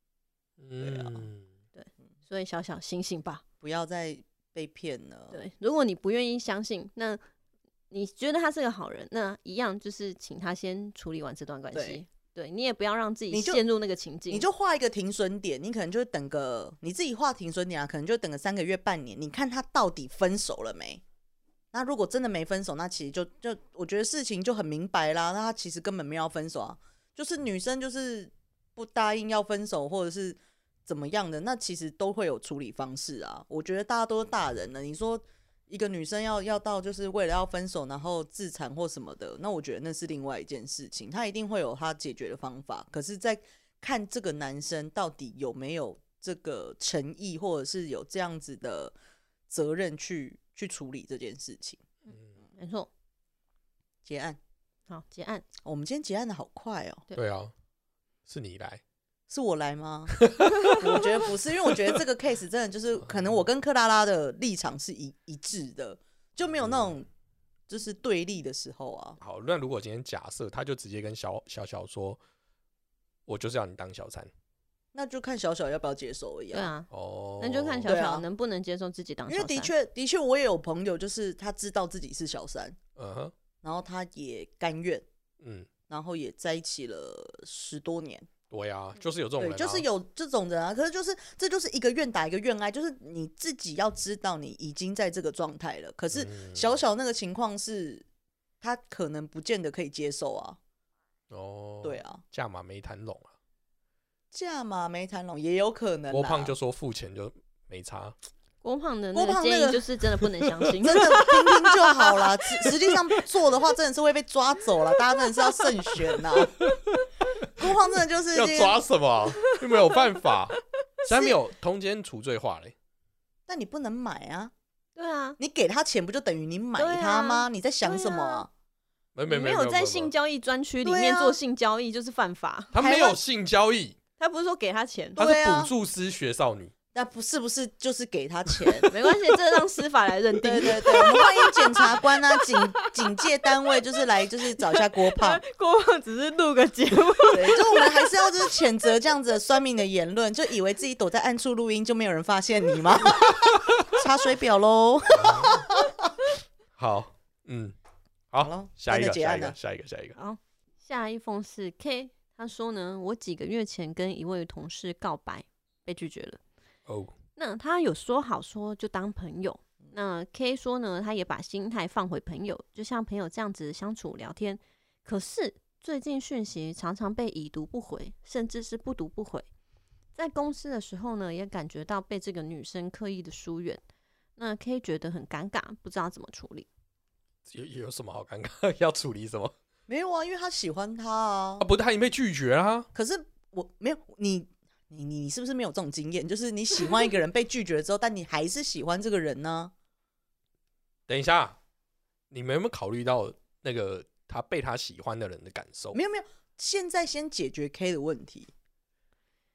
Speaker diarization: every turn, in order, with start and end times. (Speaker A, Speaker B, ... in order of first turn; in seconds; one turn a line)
Speaker A: 0.6-1.4
Speaker B: 0.8-1.2
Speaker C: 1.7-3.4
Speaker B: 3.6-5.4
Speaker C: 5.3-7.2
Speaker C: 7.9-14.4
Speaker B: 11.7-12.0
Speaker B: 13.3-13.6
Speaker B: 14.3-21.0
Speaker B: 21.7-48.9
Speaker B: 49.5-51.8
Speaker C: 52.6-52.9
Speaker B: 54.0-54.4
Speaker C: 54.9-55.5
Speaker B: 55.6-57.0
Speaker A: 57.1-57.5
Speaker A: 58.3-58.8
Speaker B: 59.3-67.1
Speaker A: 60.1-61.0
Speaker A: 66.6-66.9
Speaker B: 67.7-69.2
Speaker A: 69.2-72.2
Speaker A: 73.3-74.3
Speaker B: 74.9-76.7
Speaker C: 76.5-76.9
Speaker A: 76.9-78.0
Speaker C: 77.4-79.7
Speaker B: 77.8-78.2
Speaker B: 79.3-82.8
Speaker A: 83.0-83.3
Speaker B: 83.6-85.0
Speaker A: 85.4-85.7
Speaker B: 85.9-88.3
Speaker A: 88.5-89.8
Speaker B: 89.4-98.0
Speaker A: 96.1-96.7
Speaker B: 98.6-100.6
Speaker A: 101.3-103.3
Speaker B: 101.8-102.2
Speaker B: 104.3-106.5
Speaker A: 106.1-108.2
Speaker C: 108.6-112.2
Speaker B: 109.1-109.8
Speaker B: 110.8-116.6
Speaker B: 117.6-118.8
Speaker A: 118.3-122.7
Speaker C: 119.5-120.0
Speaker B: 121.0-121.4
Speaker B: 123.5-124.5
Speaker C: 125.0-125.4
Speaker B: 125.4-128.5
Speaker C: 126.8-128.4
Speaker A: 129.1-130.1
Speaker C: 129.3-132.7
Speaker B: 130.8-131.4
Speaker A: 132.7-133.9
Speaker B: 132.7-133.2
Speaker C: 134.2-135.2
Speaker A: 135.2-136.7
Speaker B: 135.2-135.7
Speaker B: 136.9-138.9
Speaker C: 138.9-142.9
Speaker B: 140.4-145.4
Speaker C: 144.6-148.2
Speaker B: 147.3-156.1
Speaker A: 155.1-155.7
Speaker A: 156.8-157.7
Speaker A: 158.3-160.2
Speaker B: 158.4-159.6
Speaker C: 160.2-166.4
Speaker A: 166.9-167.1
Speaker C: 167.3-179.5
Speaker C: 180.1-183.8
Speaker C: 184.4-186.7
Speaker A: 187.5-189.5
Speaker B: 189.9-191.7
Speaker A: 191.6-192.9
Speaker B: 192.9-199.7
Speaker A: 201.1-201.6
Speaker A: 202.3-206.0
Speaker B: 205.9-208.5